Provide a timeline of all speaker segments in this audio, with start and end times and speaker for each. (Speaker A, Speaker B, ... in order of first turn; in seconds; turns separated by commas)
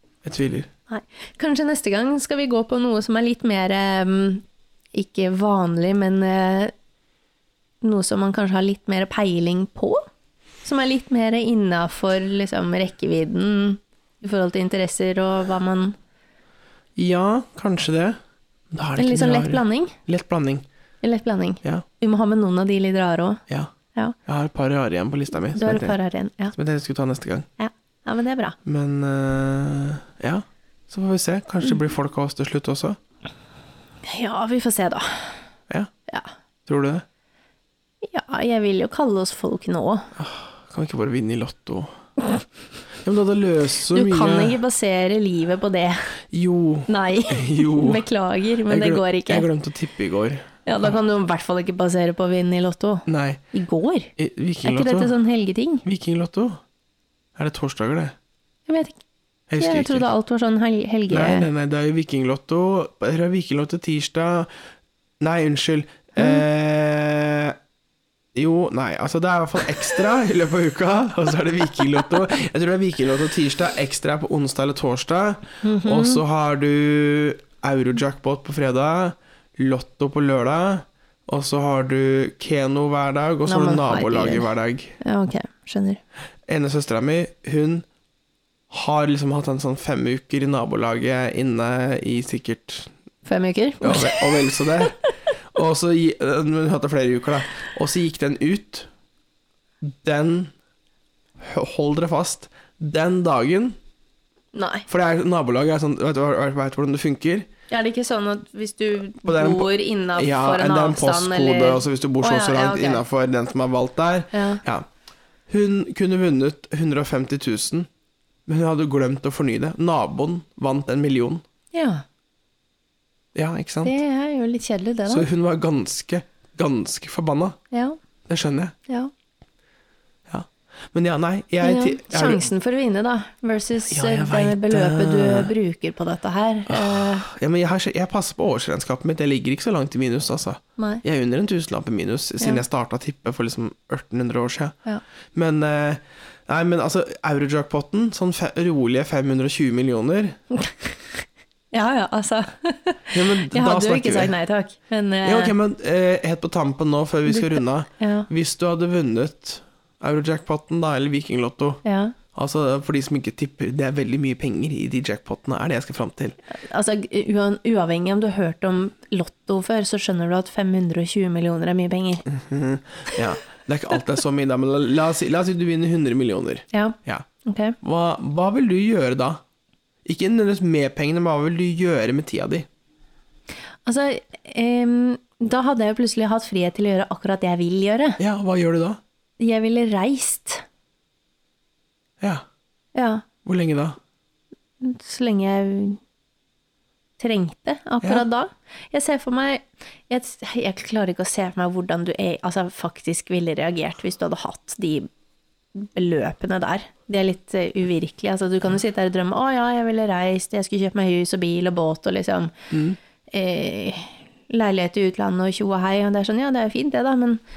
Speaker A: 0.2-0.7, Speaker B: 0.9-6.7, Speaker B: 7.8-10.0, Speaker B: 10.6-15.9, Speaker A: 16.9-18.2, Speaker A: 18.7-20.6, Speaker B: 19.0-20.0, Speaker B: 21.0-23.4, Speaker A: 24.2-25.9, Speaker B: 25.5-26.5, Speaker A: 26.5-27.5, Speaker B: 27.6-28.6, Speaker A: 28.6-33.0, Speaker B: 34.0-35.4, Speaker A: 36.7-37.0, Speaker B: 38.0-40.1, Speaker A: 40.1-41.9, Speaker A: 43.0-44.6, Speaker B: 43.9-46.1, Speaker A: 46.3-48.0, Speaker B: 46.9-49.5, Speaker A: 48.7-50.9, Speaker B: 50.6-54.1, Speaker A: 53.1-53.4, Speaker A: 54.2-55.1, Speaker B: 54.6-55.8, Speaker A: 55.8-56.6, Speaker A: 57.3-58.1, Speaker B: 58.7-59.0, Speaker A: 59.5-60.0, Speaker B: 59.6-61.5, Speaker A: 61.1-64.5, Speaker A: 65.2-67.6, Speaker B: 66.2-66.4, Speaker A: 68.3-85.0, Speaker B: 75.6-76.2, Speaker B: 83.5-84.5, Speaker B: 85.0-86.0, Speaker A: 86.5-87.8, Speaker A: 88.7-92.9, Speaker B: 93.2-95.1, Speaker A: 93.8-95.0, Speaker A: 95.5-98.9, Speaker A: 99.8-100.5, Speaker A: 101.4-103.8, Speaker B: 104.5-104.9, Speaker A: 104.9-107.5, Speaker B: 107.7-113.0, Speaker A: 109.2-114.8, Speaker B: 114.3-114.6, Speaker A: 115.5-117.9, Speaker A: 118.5-121.4, Speaker B: 121.7-122.0, Speaker A: 123.3-124.0, Speaker B: 123.8-125.3, Speaker A: 125.1-127.6, Speaker B: 127.7-128.0, Speaker A: 128.3-128.7, Speaker A: 130.3-132.4, Speaker B: 131.6-137.3, Speaker A: 133.9-135.5, Speaker A: 136.7-144.7, Speaker B: 140.8-141.0, Speaker A: 145.3-150.4, Speaker B: 151.7-155.5, Speaker A: 153.1-154.3, Speaker A: 155.2-161.8, Speaker B: 157.2-158.3, Speaker B: 161.8-162.2, Speaker A: 162.3-166.4, Speaker B: 166.5-172.2, Speaker A: 172.3-177.2, Speaker B: 176.7-177.8, Speaker A: 177.8-179.4, Speaker A: 180.0-182.7, Speaker B: 183.8-188.2, Speaker A: 188.2-189.0, Speaker B: 189.4-190.6, Speaker B: 192.9-193.2, Speaker A: 193.4-194.0, Speaker B: 194.8-196.0, Speaker B: 197.2-205.1, Speaker B: 205.7-212.5, Speaker A: 212.7-213.0, Speaker B: 213.3-217.4